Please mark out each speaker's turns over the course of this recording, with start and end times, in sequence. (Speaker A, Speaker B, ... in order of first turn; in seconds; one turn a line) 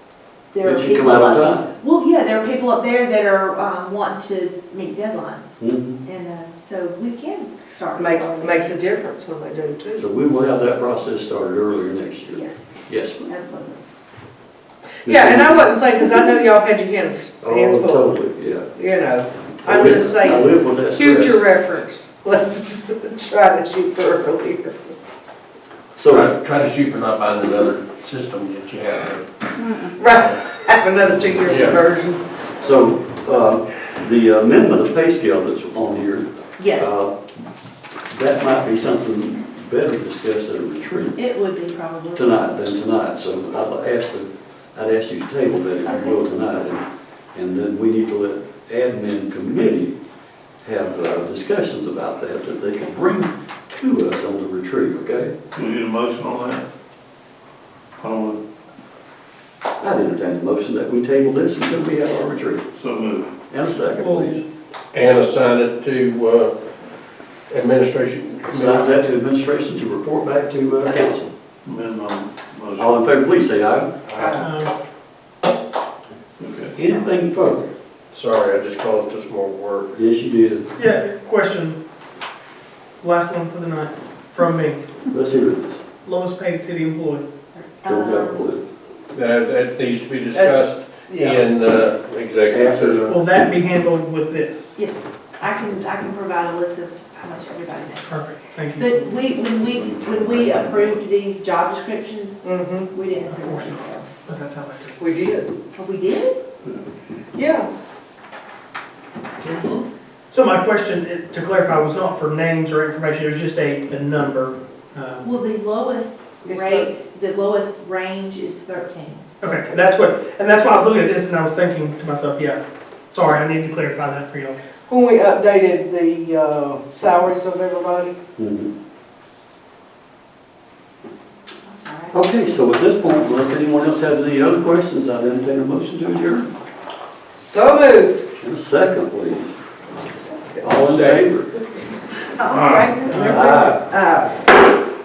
Speaker A: 0.5-8.7
Speaker B: 0.6-1.7
Speaker B: 5.6-6.0
Speaker C: 8.0-10.0
Speaker B: 9.9-13.3
Speaker A: 12.3-13.8
Speaker B: 15.0-15.7
Speaker C: 15.1-18.2
Speaker B: 17.4-18.7
Speaker C: 18.7-24.9
Speaker B: 19.6-21.4
Speaker B: 26.0-26.3
Speaker D: 26.1-29.3
Speaker C: 29.9-32.2
Speaker D: 31.4-31.8
Speaker B: 32.6-37.2
Speaker A: 36.6-37.0
Speaker B: 38.1-41.2
Speaker A: 41.1-42.6
Speaker B: 42.1-50.0
Speaker B: 50.6-55.4
Speaker E: 55.5-56.6
Speaker E: 58.0-58.4
Speaker B: 59.8-62.6
Speaker E: 62.8-63.3
Speaker B: 63.5-64.4
Speaker F: 64.0-64.3
Speaker D: 64.9-66.5
Speaker D: 67.5-68.9
Speaker B: 68.5-71.3
Speaker E: 71.6-73.0
Speaker B: 72.8-74.1
Speaker C: 74.2-74.5
Speaker F: 74.4-74.7
Speaker E: 76.4-76.7
Speaker B: 76.7-77.7
Speaker D: 78.1-80.0
Speaker B: 79.9-80.8
Speaker F: 80.8-81.8
Speaker F: 83.0-84.8
Speaker B: 85.1-85.8
Speaker F: 86.0-87.2
Speaker A: 87.5-88.5
Speaker B: 87.9-88.6
Speaker D: 89.1-93.1
Speaker C: 90.3-91.4
Speaker B: 92.5-93.1
Speaker F: 93.1-94.8
Speaker A: 94.8-104.1
Speaker F: 98.1-99.1
Speaker E: 99.8-100.6
Speaker C: 102.4-102.9
Speaker F: 103.3-105.0
Speaker C: 105.0-105.5
Speaker A: 105.7-106.4
Speaker C: 107.3-107.7
Speaker C: 109.5-109.7
Speaker F: 110.3-115.3
Speaker A: 115.2-119.2
Speaker C: 116.5-116.9
Speaker F: 119.4-122.6
Speaker F: 123.1-124.6
Speaker C: 124.8-128.2
Speaker B: 128.4-128.7
Speaker A: 131.6-132.2
Speaker B: 132.1-136.5
Speaker C: 137.3-138.2
Speaker B: 138.4-139.5
Speaker C: 140.1-140.7
Speaker B: 140.6-141.5
Speaker D: 140.8-141.2
Speaker C: 142.3-144.4
Speaker B: 143.1-143.8